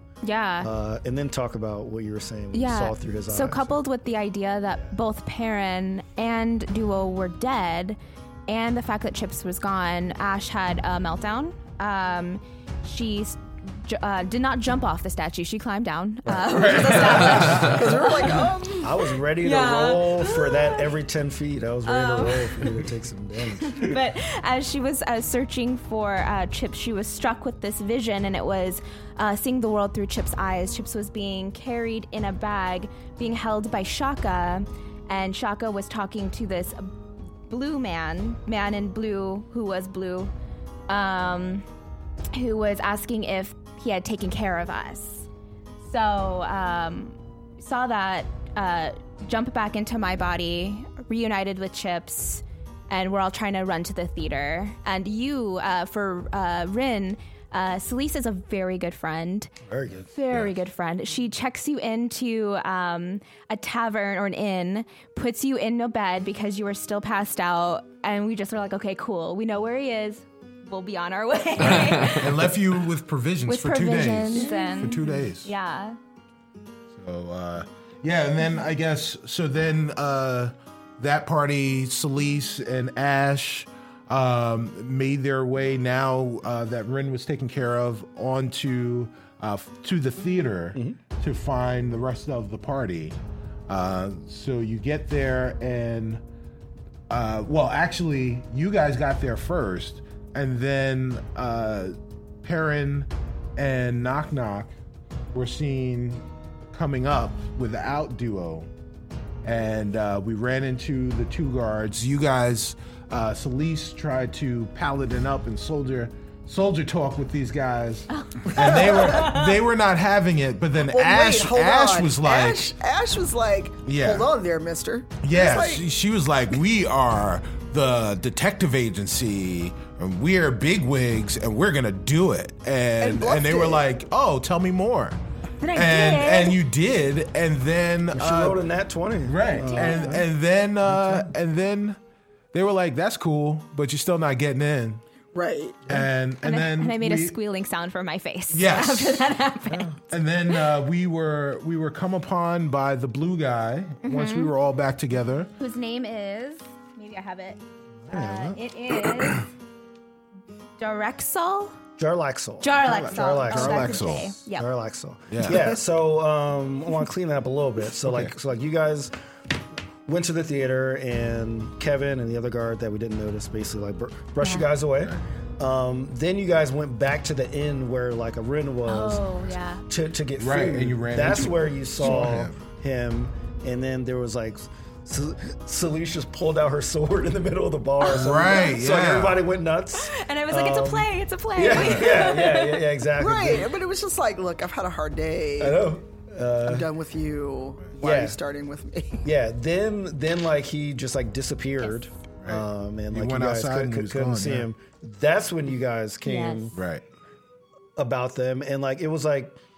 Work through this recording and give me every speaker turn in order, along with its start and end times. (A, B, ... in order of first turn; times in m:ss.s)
0:00.2-0:00.7 A
0:00.6-0:03.8 B
0:02.5-0:18.1 A
0:16.4-0:18.0 C
0:17.2-0:19.0 D
0:18.8-0:24.0 B
0:19.4-0:20.9 A
0:21.8-0:22.7 A
0:23.6-0:36.9 A
0:37.5-0:40.3 A
0:40.9-0:41.7 A
0:42.3-0:45.3 A
0:45.8-0:59.5 A
0:59.7-1:00.1 B
1:00.1-1:12.5 A
1:11.6-1:15.5 C
1:13.5-1:16.0 A
1:16.9-1:33.2 C
1:33.7-1:36.2 C
1:37.1-1:44.8 C
1:45.3-1:48.7 C
1:49.4-2:02.7 C
1:58.1-1:59.5 A
2:00.8-2:05.9 D
2:03.8-2:04.3 C
2:05.2-2:15.2 C
2:13.0-2:13.9 D
2:15.6-2:16.6 A
2:15.8-2:18.6 C
2:18.1-2:20.3 B
2:19.2-2:22.0 C
2:19.6-2:20.2 A
2:20.9-2:21.2 B
2:22.5-2:25.0 C
2:25.3-2:25.9 D
2:25.9-2:27.4 C
2:26.4-2:29.9 A
2:28.5-2:29.3 C
2:30.1-2:35.5 C
2:34.0-2:34.5 A
2:35.6-2:39.5 A
2:38.0-2:38.6 B
2:40.8-2:41.7 A
2:42.0-2:49.1 B
2:42.6-2:44.7 A
2:42.8-2:44.4 C
2:45.3-2:45.7 C
2:48.0-2:48.3 C
2:50.1-2:59.2 B
2:54.4-2:54.7 A
2:58.9-2:59.8 A
2:59.9-3:13.7 B
3:00.4-3:02.6 C
3:08.0-3:08.8 A
3:08.1-3:09.4 C
3:10.0-3:12.9 A
3:13.2-3:15.9 D
3:15.6-3:16.9 B
3:16.6-3:19.3 D
3:18.0-3:18.4 B
3:19.2-3:26.8 B
3:22.4-3:24.7 C
3:26.2-3:26.7 A
3:26.7-3:27.0 C
3:28.0-3:29.6 B